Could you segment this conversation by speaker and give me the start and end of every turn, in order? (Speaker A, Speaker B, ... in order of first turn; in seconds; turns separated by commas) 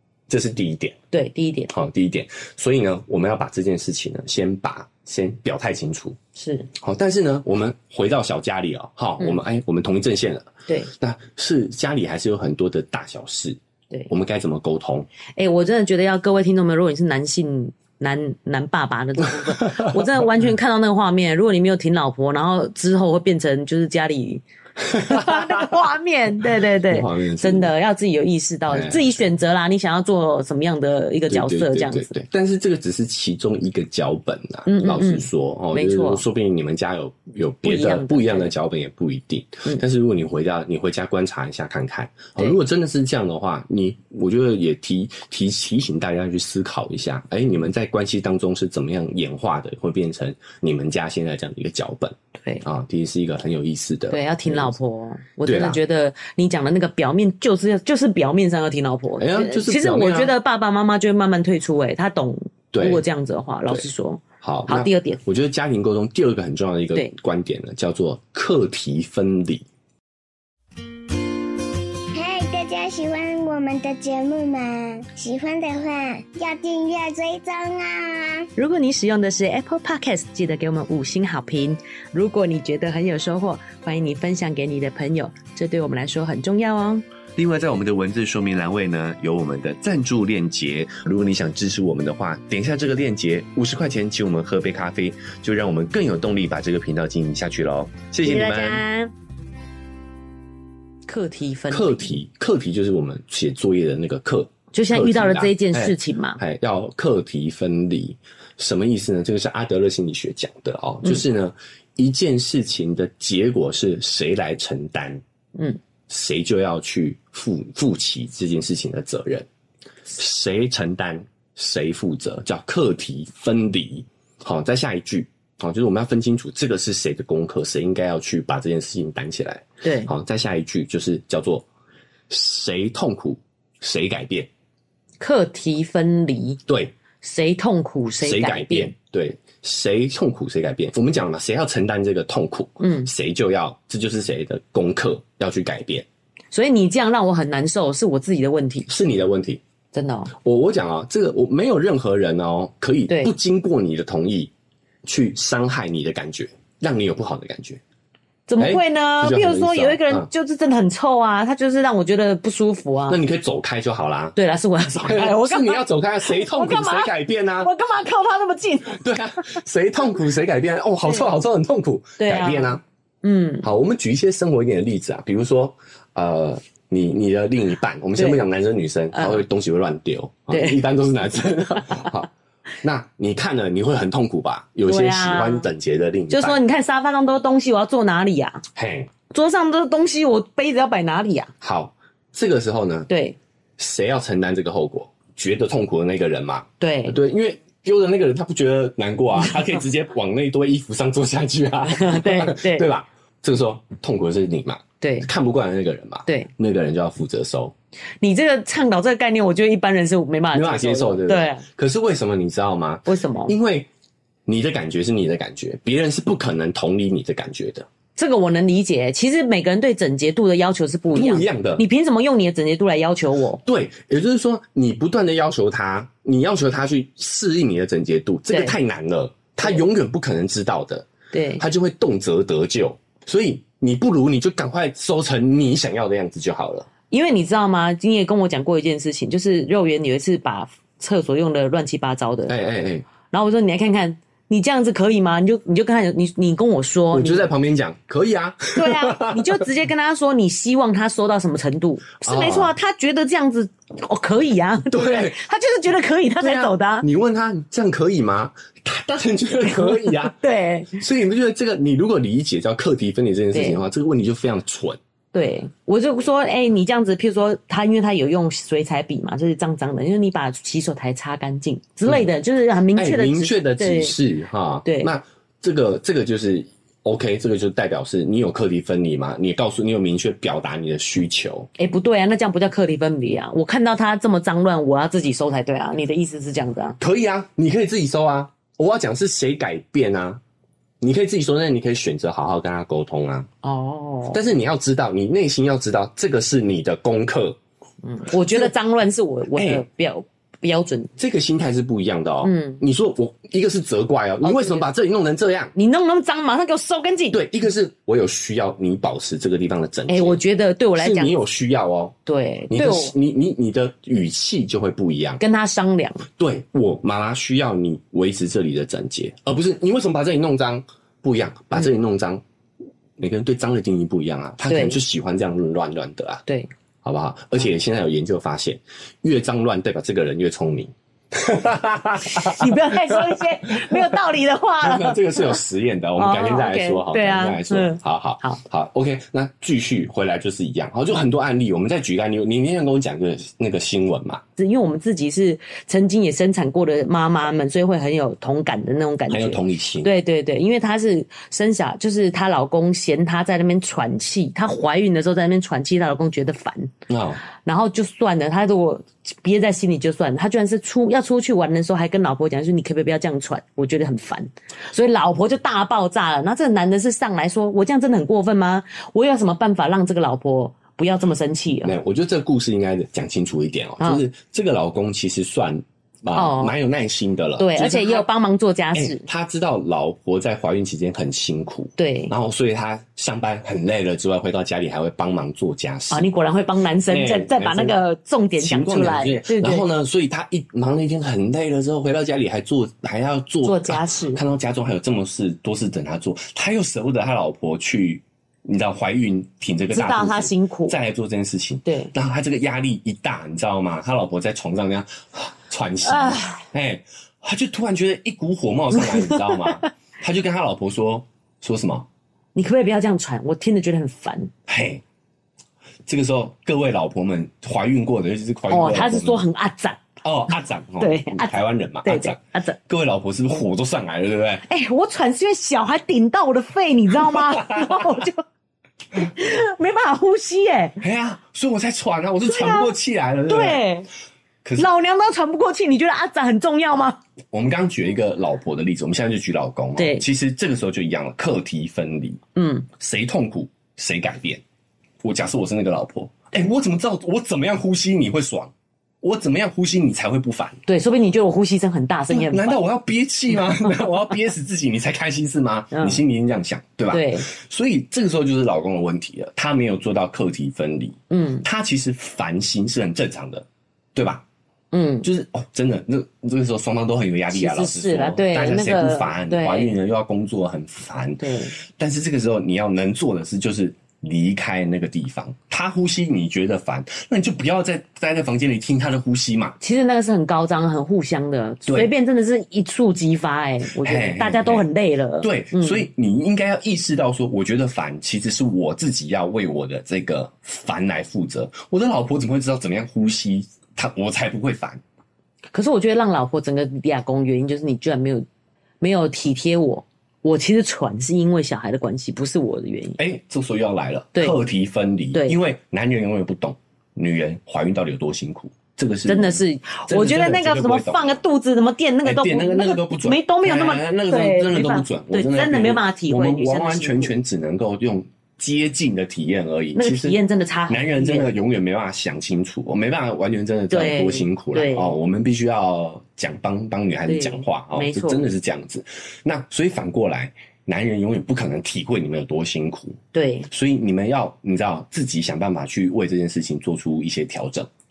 Speaker A: 0.3-1.0, Speaker B: 1.1-1.7, Speaker A: 1.7-6.2, Speaker B: 6.3-6.7, Speaker A: 6.7-15.1, Speaker B: 15.3-32.1, Speaker A: 19.6-20.2, Speaker A: 24.9-25.8, Speaker A: 26.9-27.7, Speaker A: 28.7-29.1, Speaker A: 31.3-54.7, Speaker B: 34.6-36.2, Speaker B: 37.6-38.5, Speaker B: 54.1-65.2, Speaker A: 55.4-55.8, Speaker A: 59.2-60.3, Speaker A: 62.7-63.0, Speaker A: 64.4-69.7, Speaker C: 72.1-78.5, Speaker B: 78.5-87.0, Speaker A: 87.3-98.8, Speaker B: 98.2-99.1, Speaker B: 101.1-102.2, Speaker A: 101.7-115.2, Speaker B: 104.7-106.4, Speaker A: 116.1-119.5, Speaker A: 120.1-131.7, Speaker B: 129.8-130.1, Speaker A: 132.3-134.5, Speaker B: 135.2-136.6, Speaker A: 136.7-136.9, Speaker B: 137.2-138.9, Speaker A: 138.2-146.1, Speaker B: 142.8-143.1, Speaker B: 146.5-148.9, Speaker A: 148.9-149.6, Speaker B: 149.9-150.3, Speaker A: 150.3-154.5, Speaker A: 155.0-157.8, Speaker B: 158.5-163.2, Speaker A: 158.6-160.3, Speaker A: 163.1-164.3, Speaker B: 164.3-169.0, Speaker A: 164.9-167.7, Speaker A: 168.9-172.8, Speaker B: 172.2-173.7, Speaker A: 173.6-182.3, Speaker B: 178.2-178.4, Speaker B: 179.1-179.4, Speaker B: 180.5-180.8, Speaker A: 182.8-186.6, Speaker B: 184.8-185.7, Speaker B: 186.3-188.6, Speaker A: 188.7-189.1, Speaker B: 189.3-191.5, Speaker A: 191.6-193.1, Speaker B: 193.1-193.4, Speaker A: 193.8-207.7, Speaker B: 196.8-197.2, Speaker B: 201.8-202.9, Speaker B: 205.0-205.3, Speaker B: 208.2-211.7, Speaker A: 210.5-213.9, Speaker B: 213.1-213.6, Speaker A: 214.4-217.9, Speaker B: 218.2-223.6, Speaker A: 221.1-221.8, Speaker A: 223.6-236.9, Speaker B: 228.5-228.7, Speaker B: 231.3-231.6, Speaker B: 237.1-242.5, Speaker A: 242.5-243.1, Speaker B: 243.3-247.5, Speaker A: 247.1-249.6, Speaker B: 248.8-257.1, Speaker A: 252.2-252.7, Speaker A: 254.9-255.4, Speaker A: 256.4-260.4, Speaker B: 259.6-261.0, Speaker A: 260.9-265.0, Speaker B: 263.5-263.8, Speaker B: 265.3-274.1, Speaker A: 272.9-281.7, Speaker B: 274.8-275.1, Speaker B: 281.8-287.0, Speaker A: 287.0-290.4, Speaker A: 291.0-293.5, Speaker B: 293.6-294.4, Speaker A: 294.3-297.6, Speaker B: 298.0-301.1, Speaker A: 298.4-298.7, Speaker A: 299.5-299.8, Speaker A: 301.2-305.7, Speaker B: 302.4-302.8, Speaker B: 304.4-304.9, Speaker B: 305.7-307.4, Speaker A: 307.3-310.4, Speaker B: 310.1-311.3, Speaker A: 310.9-312.1, Speaker B: 312.2-313.1, Speaker A: 312.7-315.4, Speaker B: 315.4-316.3, Speaker A: 316.4-322.4, Speaker A: 323.2-326.4, Speaker B: 324.6-325.0, Speaker A: 327.0-334.2, Speaker B: 332.2-335.6, Speaker A: 334.8-344.4, Speaker B: 336.1-338.6, Speaker B: 344.6-356.9, Speaker A: 349.3-350.1, Speaker A: 357.1-357.4, Speaker B: 357.4-371.9, Speaker A: 371.8-378.3, Speaker B: 376.3-376.7, Speaker B: 377.6-379.2, Speaker A: 378.9-386.3, Speaker B: 382.0-382.3, Speaker B: 386.1-389.9, Speaker A: 387.1-388.0, Speaker A: 388.6-412.1, Speaker B: 393.6-394.4, Speaker B: 399.9-400.9, Speaker B: 401.8-402.1, Speaker B: 406.0-406.7, Speaker B: 409.0-409.9, Speaker B: 412.5-414.5, Speaker A: 414.7-415.0, Speaker A: 416.1-419.4, Speaker B: 418.7-420.0, Speaker A: 420.2-424.6, Speaker B: 421.0-422.8, Speaker B: 424.6-428.4, Speaker A: 427.2-428.1, Speaker B: 429.1-431.0, Speaker A: 431.0-433.8, Speaker B: 432.4-432.9, Speaker B: 433.5-434.1, Speaker B: 434.8-437.2, Speaker A: 437.5-444.6, Speaker B: 440.0-440.2, Speaker B: 442.6-442.9, Speaker A: 445.2-450.8, Speaker B: 450.9-452.8, Speaker A: 452.3-464.4, Speaker B: 455.9-456.2, Speaker B: 457.1-457.5, Speaker B: 461.3-461.6, Speaker B: 464.9-465.3, Speaker A: 465.2-479.8, Speaker B: 467.5-469.9, Speaker B: 471.4-471.8, Speaker B: 479.8-486.1, Speaker A: 481.9-482.1, Speaker A: 484.0-484.9, Speaker A: 485.4-495.0, Speaker B: 495.7-498.4, Speaker B: 499.0-503.2, Speaker A: 503.2-511.4, Speaker B: 504.3-504.6, Speaker B: 509.3-517.3, Speaker A: 512.2-537.9, Speaker B: 519.9-521.5, Speaker B: 523.9-525.1, Speaker B: 527.2-528.5, Speaker B: 533.3-533.7